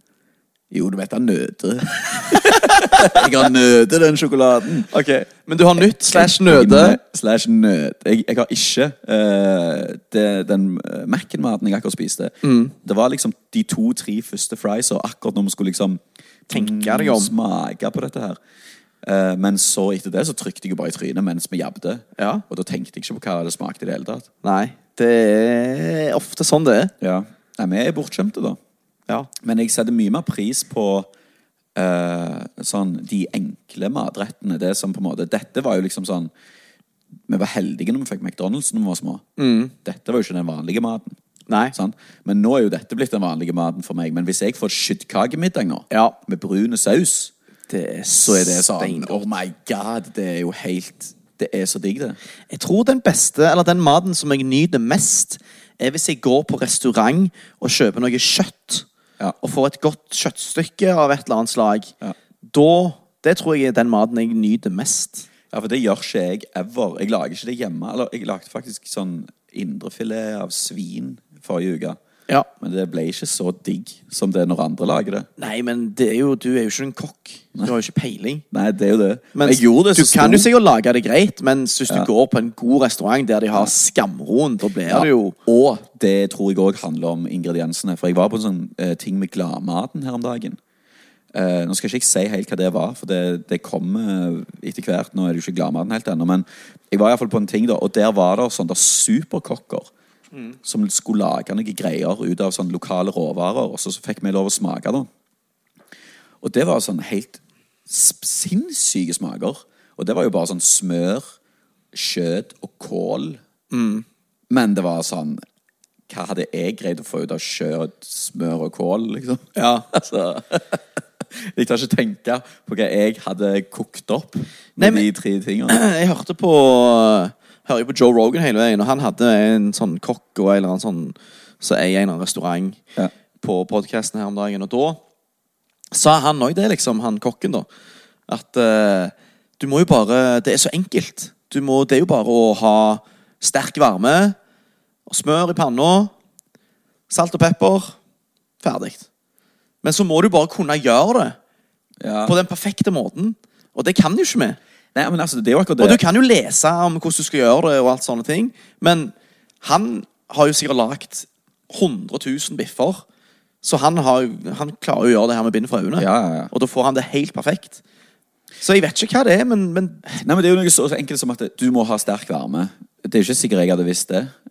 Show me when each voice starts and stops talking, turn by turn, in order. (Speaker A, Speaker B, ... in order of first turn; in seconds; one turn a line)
Speaker A: 0.7-4.9
Speaker B: 2.2-3.3
Speaker B: 4.9-7.0
Speaker A: 6.0-18.4
Speaker B: 12.4-12.7
Speaker B: 16.5-17.3
Speaker A: 19.0-24.3
Speaker B: 22.2-22.4
Speaker B: 24.4-26.9
Speaker A: 27.0-28.6
Speaker A: 29.4-31.1
Speaker A: 31.7-36.3
Speaker A: 37.3-39.2
Speaker B: 39.4-39.7
Speaker A: 39.8-41.1
Speaker B: 41.5-41.7
Speaker A: 41.7-47.3
Speaker B: 45.9-46.1
Speaker B: 47.7-49.3
Speaker A: 48.2-52.2
Speaker B: 52.5-58.9
Speaker B: 59.4-65.3
Speaker A: 65.5-72.0
Speaker A: 72.6-75.3
Speaker B: 75.4-78.4
Speaker A: 78.5-80.5
Speaker B: 79.3-85.3
Speaker A: 84.9-90.6
Speaker A: 91.3-99.9
Speaker A: 100.6-105.1
Speaker A: 106.4-111.2
Speaker A: 111.9-113.4
Speaker B: 113.7-114.0
Speaker A: 114.5-115.4
Speaker A: 116.1-125.8
Speaker B: 119.5-119.9
Speaker B: 124.8-125.1
Speaker B: 125.7-132.8
Speaker B: 133.4-135.0
Speaker B: 135.9-137.7
Speaker B: 138.3-144.3
Speaker B: 145.1-146.1
Speaker B: 147.1-147.9
Speaker B: 148.6-149.1
Speaker B: 149.8-151.3
Speaker A: 152.0-152.3
Speaker B: 152.2-154.6
Speaker A: 154.9-156.0
Speaker B: 155.8-163.0
Speaker B: 163.6-167.8
Speaker A: 166.0-166.5
Speaker B: 168.6-170.1
Speaker A: 170.1-174.3